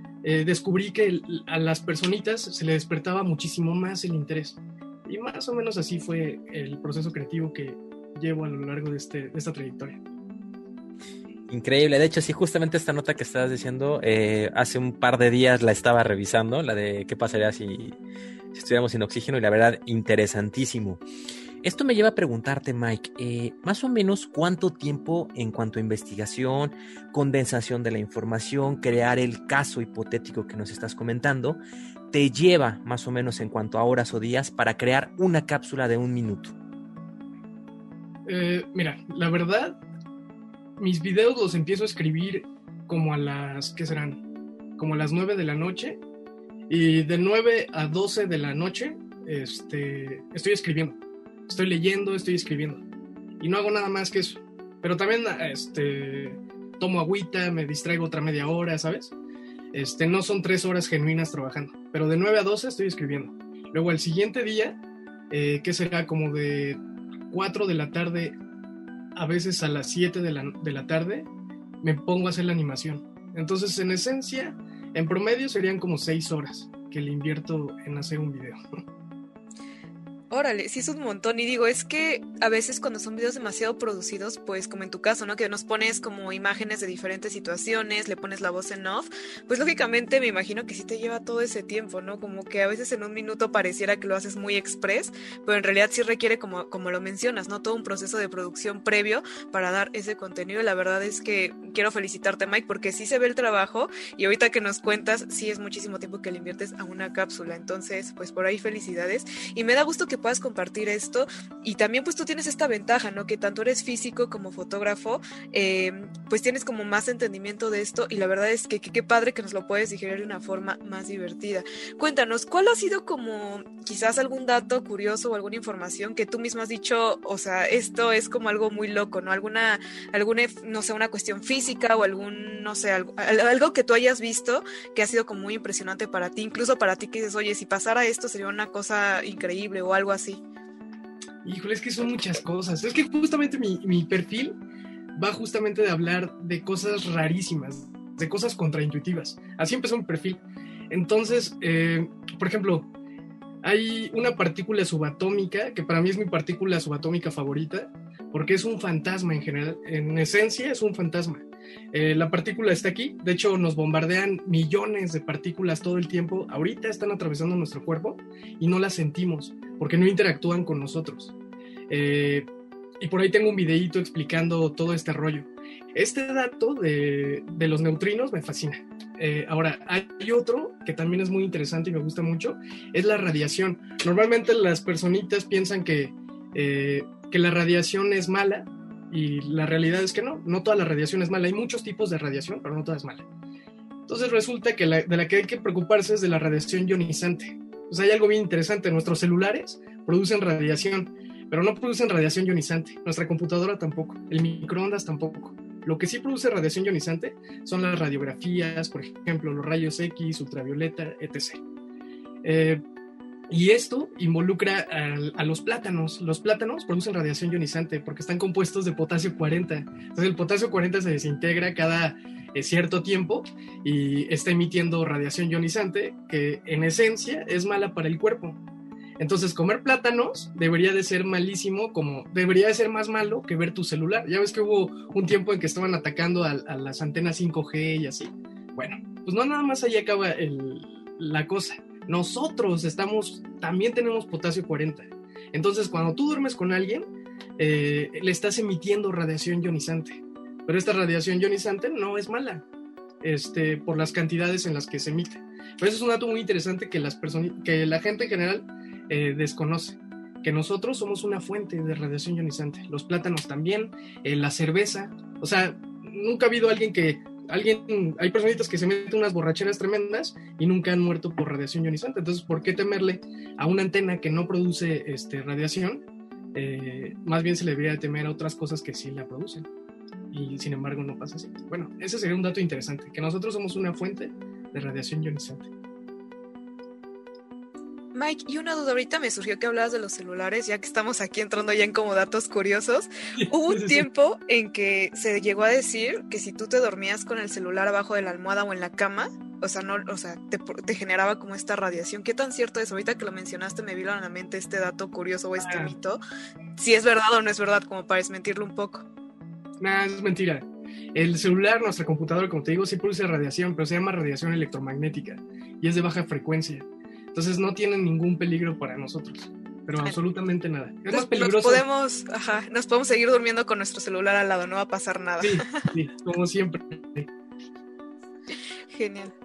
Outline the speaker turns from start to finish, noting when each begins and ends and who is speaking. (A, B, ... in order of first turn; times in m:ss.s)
0:00.2-0:10.0 A
0:11.5-0:18.0 B
0:18.5-0:21.0 B
0:21.6-0:36.5 B
0:38.3-0:39.8 A
0:40.8-0:44.2 A
0:44.8-0:46.0 A
0:46.7-0:51.0 A
0:51.5-0:52.8 A
0:53.4-0:59.1 A
0:59.7-1:04.8 A
1:05.3-1:08.4 A
1:09.2-1:11.3 A
1:11.8-1:18.6 A
1:20.3-2:20.4 C
2:21.4-2:24.6 A
2:25.2-2:32.9 A
2:33.6-2:51.3 A
2:51.9-2:52.5 A
2:53.0-3:13.2 A
3:14.1-3:31.6 A
3:32.4-3:32.8 A
3:33.5-3:48.6 A
3:49.2-4:07.0 A
4:07.6-4:12.6 A
4:13.2-4:36.0 A
4:36.5-4:39.7 A
4:40.3-4:45.7 A
4:48.1-5:06.2 C
4:53.4-4:54.1 A
5:05.6-5:05.9 A
5:06.8-5:09.0 C
5:09.8-5:21.9 A
5:21.1-5:25.8 C
5:25.4-5:27.3 A
5:28.9-5:29.3 C